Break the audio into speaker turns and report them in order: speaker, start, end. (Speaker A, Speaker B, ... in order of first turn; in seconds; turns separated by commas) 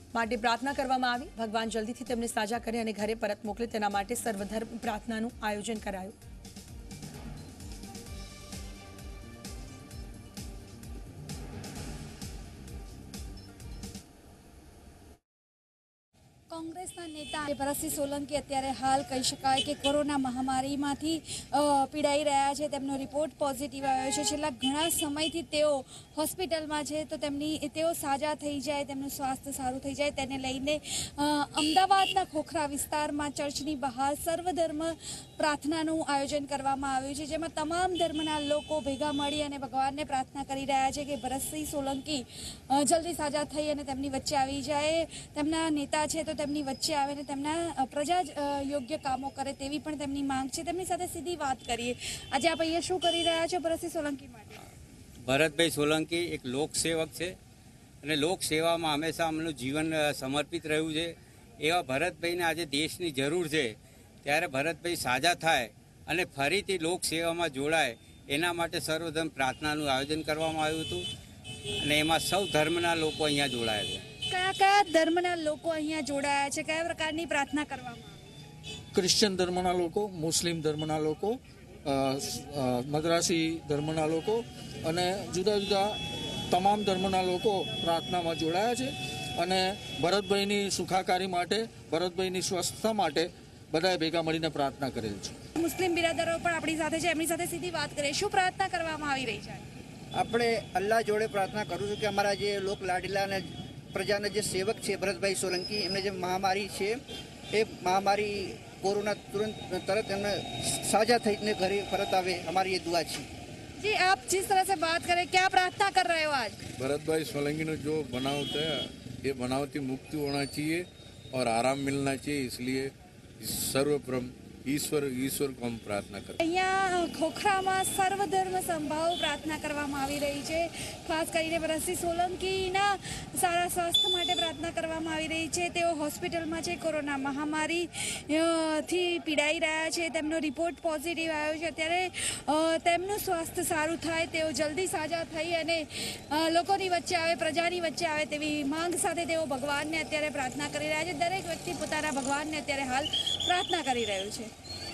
Speaker A: 0.1-6.2, Speaker B: 16.5-54.6, Speaker C: 55.2-57.4, Speaker C: 58.0-71.1, Speaker C: 71.8-74.0, Speaker B: 74.3-78.1, Speaker D: 78.9-95.4, Speaker B: 95.5-99.6, Speaker E: 100.1-107.0, Speaker E: 107.5-113.3, Speaker B: 113.8-116.6, Speaker F: 116.8-126.4, Speaker B: 126.4-154.5